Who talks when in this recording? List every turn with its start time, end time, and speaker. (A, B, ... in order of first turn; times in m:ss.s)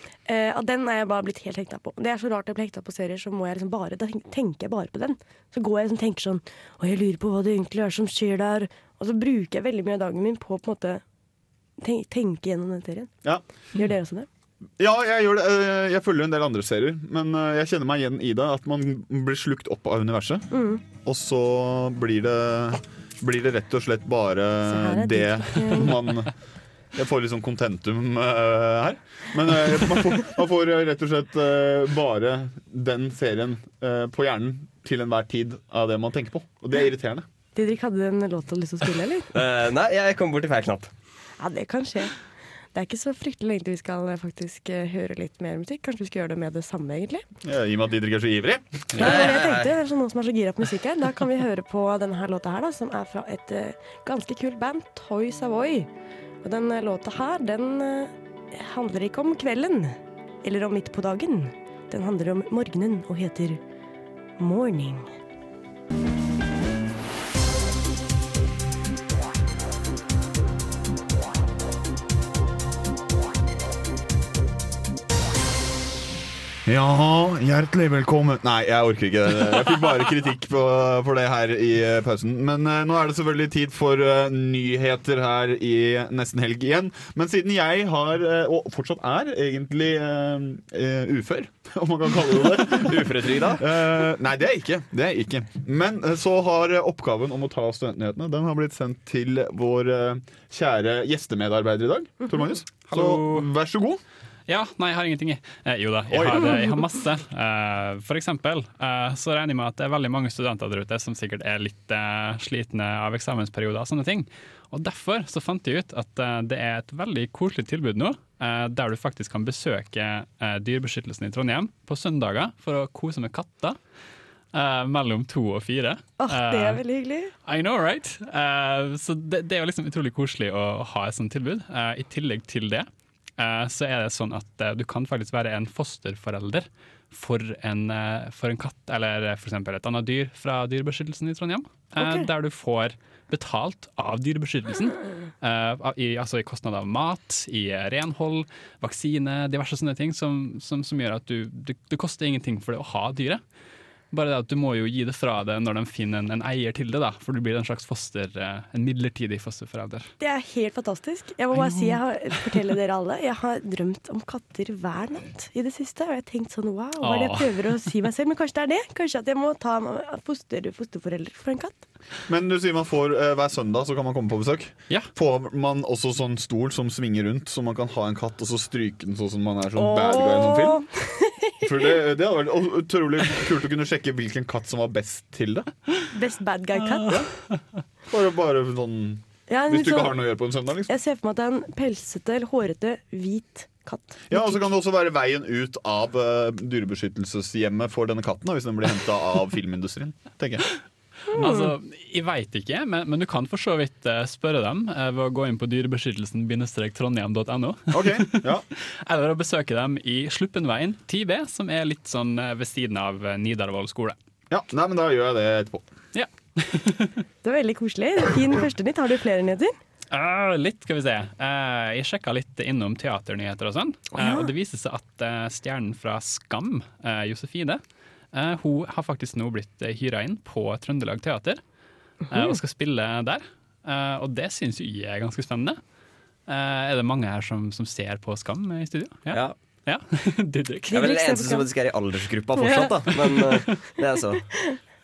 0:00.2-0:11.0 A
0:11.8-0:13.1 A
0:13.7-0:14.3 A
0:14.8-0:26.3 B
0:20.5-0:20.8 A
0:24.6-0:26.0 A
0:26.9-0:37.2 B
0:37.5-0:39.3 A
0:39.3-0:40.9 C
0:41.4-0:42.1 A
0:42.7-0:47.2 A
0:47.4-0:49.7 B
0:49.0-0:55.9 A
0:49.1-0:49.5 C
0:56.4-1:03.6 A
1:04.4-1:05.1 A
1:16.6-1:44.0 B
1:32.6-1:33.6 C
1:42.9-1:43.5 D
1:44.5-2:03.8 D
1:46.1-1:46.6 B
2:04.5-2:06.8 D
2:06.2-2:07.3 A
2:07.4-2:12.9 D
2:13.4-2:33.4 D
2:22.0-2:22.3 A
2:34.1-2:40.1 D
2:40.2-2:51.8 A
2:41.5-2:42.0 D
2:47.0-2:47.7 D
2:52.3-3:00.8 B
2:59.8-3:01.9 A
3:01.6-3:05.7 B
3:06.1-3:07.1 A
3:08.1-3:10.9 B
3:09.5-3:10.2 A
3:10.9-3:14.6 A
3:14.3-3:20.7 B
3:21.3-3:21.7 A
3:21.3-3:34.2 D
3:27.9-3:28.6 B
3:34.5-3:35.9 B
3:36.1-3:37.2 D
3:37.4-3:39.7 A
3:40.1-3:47.8 D
3:44.2-3:44.5 A
3:48.3-3:51.6 D
3:52.3-3:55.8 D
3:56.5-4:01.0 D
4:00.9-4:01.7 A
4:00.9-4:04.4 C
4:02.6-4:02.9 A